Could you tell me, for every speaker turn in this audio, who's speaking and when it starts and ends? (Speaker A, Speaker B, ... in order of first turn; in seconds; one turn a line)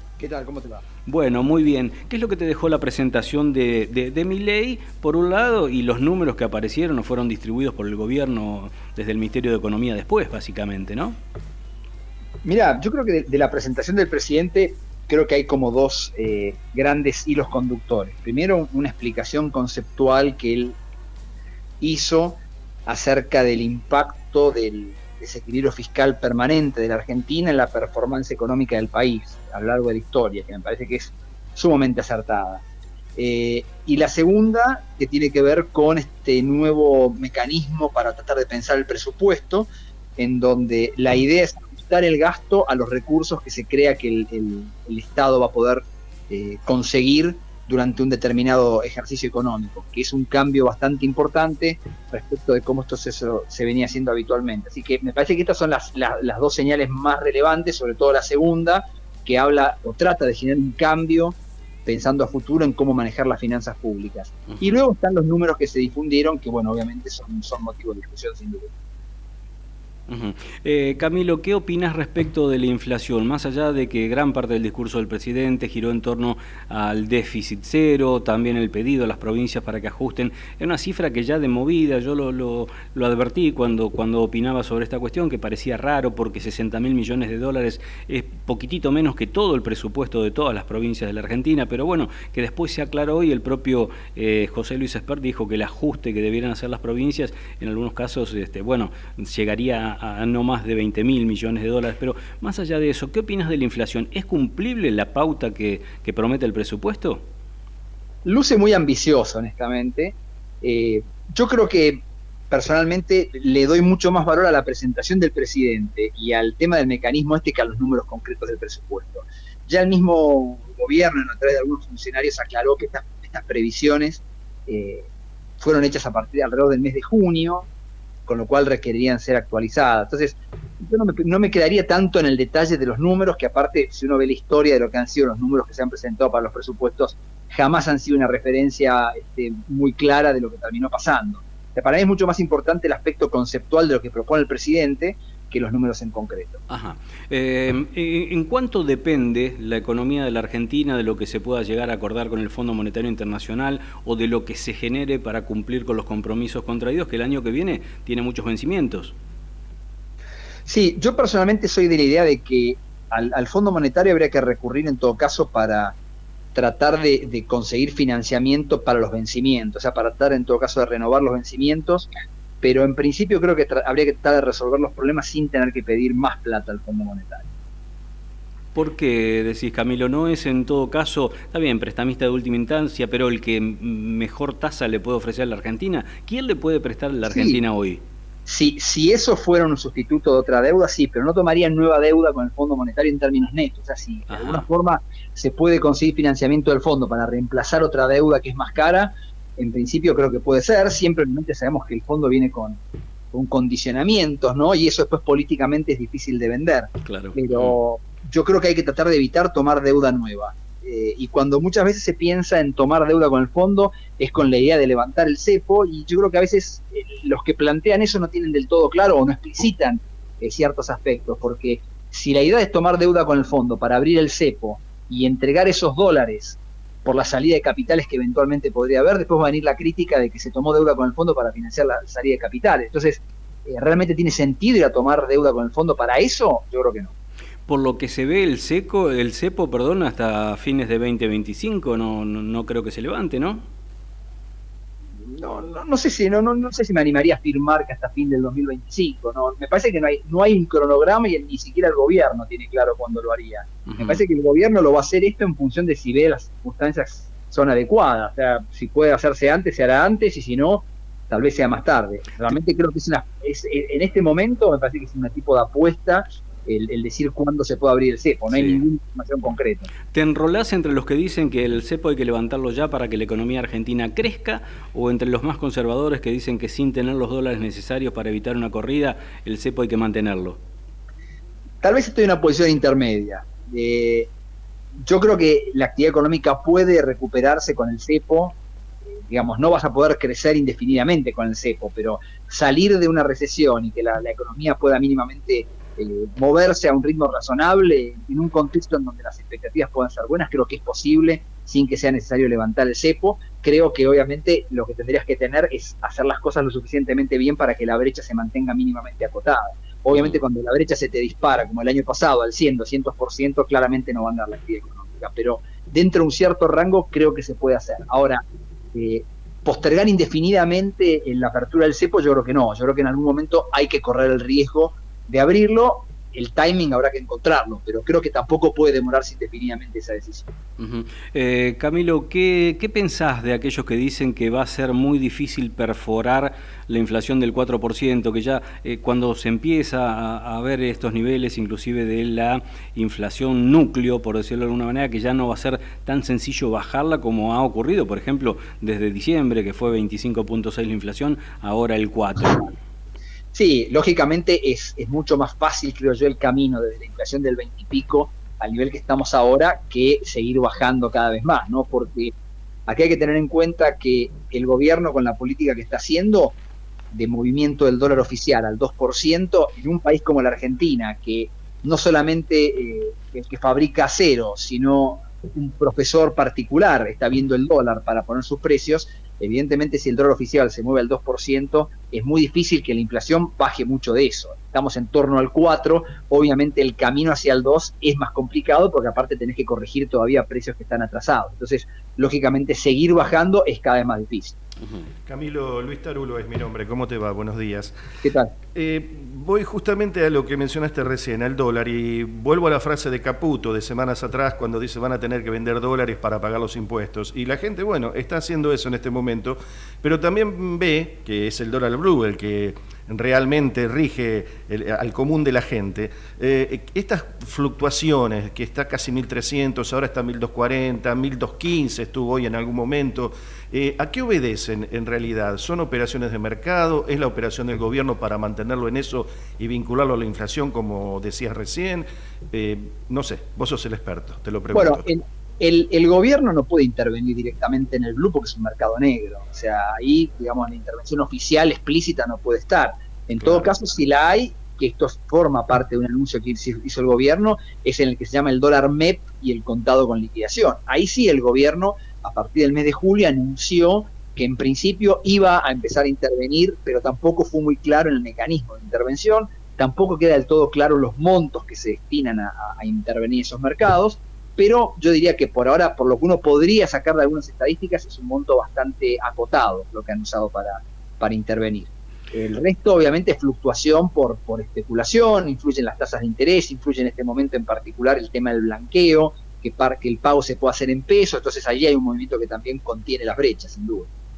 Speaker A: 0.2-0.8
Speaker B: 1.1-11.2
Speaker A: 12.4-20.8
Speaker A: 21.8-32.6
Speaker A: 33.1-68.7
Speaker B: 64.5-64.8
Speaker B: 70.1-107.2
Speaker A: 108.2-125.1
Speaker A: 125.6-127.7
Speaker A: 128.3-146.6
Speaker B: 146.7-159.1
Speaker A: 160.7-166.0
Speaker A: 166.5-172.1
Speaker A: 172.6-177.5
Speaker B: 178.7-188.0
Speaker A: 187.2-187.6
Speaker A: 188.4-202.8
Speaker B: 194.3-194.6
Speaker A: 203.3-237.1
Speaker B: 207.0-207.8
Speaker B: 237.7-243.7
Speaker A: 245.2-269.9
Speaker B: 253.9-254.2
Speaker B: 268.5-268.8
Speaker B: 270.1-280.6
Speaker A: 281.8-284.3
Speaker A: 285.0-288.6
Speaker A: 289.2-318.4
Speaker B: 310.1-310.4
Speaker A: 318.9-330.5
Speaker B: 330.8-352.7
Speaker A: 353.5-362.3
Speaker A: 362.9-366.6
Speaker A: 367.1-394.6
Speaker C: 395.2-397.9
Speaker A: 398.2-398.5
Speaker C: 398.7-435.0
Speaker A: 434.7-484.1
Speaker C: 443.4-443.7